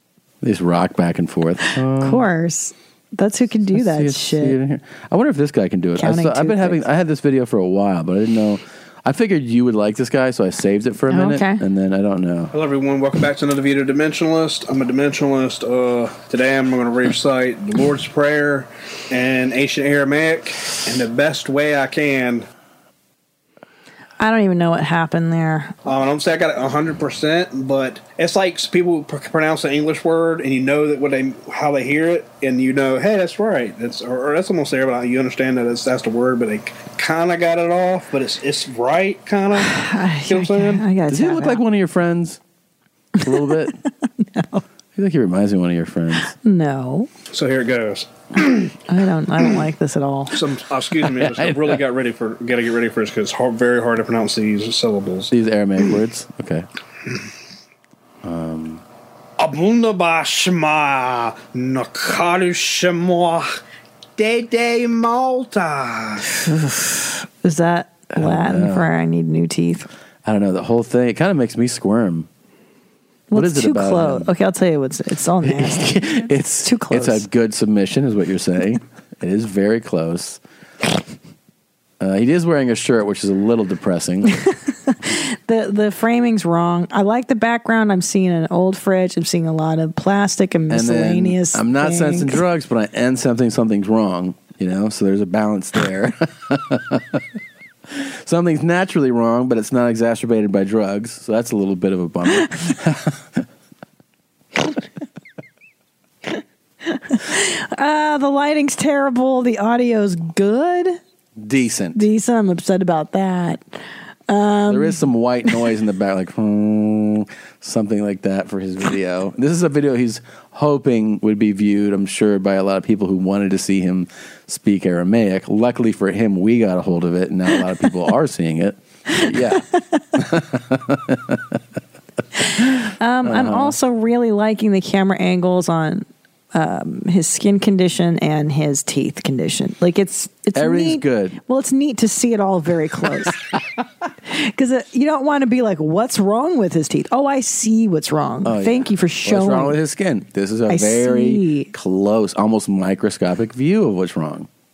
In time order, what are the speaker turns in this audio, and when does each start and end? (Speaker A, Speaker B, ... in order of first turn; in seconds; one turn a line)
Speaker A: 0.4-2.2
Speaker B: 2.0-4.5
Speaker A: 3.7-12.5
Speaker B: 6.0-6.8
Speaker B: 11.1-11.6
Speaker C: 12.5-22.5
Speaker B: 24.2-25.8
Speaker C: 25.9-39.7
Speaker B: 39.6-41.6
Speaker C: 40.3-40.8
Speaker A: 41.1-42.4
Speaker B: 43.2-43.7
Speaker A: 43.2-43.8
Speaker B: 44.2-44.6
Speaker A: 45.0-46.3
Speaker B: 46.4-47.1
Speaker C: 47.3-48.7
Speaker B: 48.9-50.4
Speaker C: 50.3-55.3
Speaker A: 51.0-51.8
Speaker A: 55.3-56.7
Speaker A: 58.2-58.8
Speaker C: 59.4-63.5
Speaker C: 64.2-66.3
Speaker B: 66.5-69.9
Speaker A: 68.1-68.9
Speaker A: 70.2-72.3
Speaker B: 73.3-77.2
Speaker A: 73.3-74.3
Speaker A: 75.4-80.4
Speaker A: 82.0-84.3
Speaker B: 84.9-92.4
Speaker A: 90.7-97.2
Speaker A: 98.0-103.4
Speaker B: 106.9-111.0
Speaker A: 111.4-112.0
Speaker B: 112.0-113.8
Speaker B: 114.3-115.5
Speaker A: 114.7-131.4
Speaker B: 129.1-129.8
Speaker B: 132.6-143.4
Speaker A: 133.2-133.7
Speaker A: 140.6-141.4
Speaker B: 144.3-149.8
Speaker A: 148.4-154.5
Speaker B: 150.7-151.7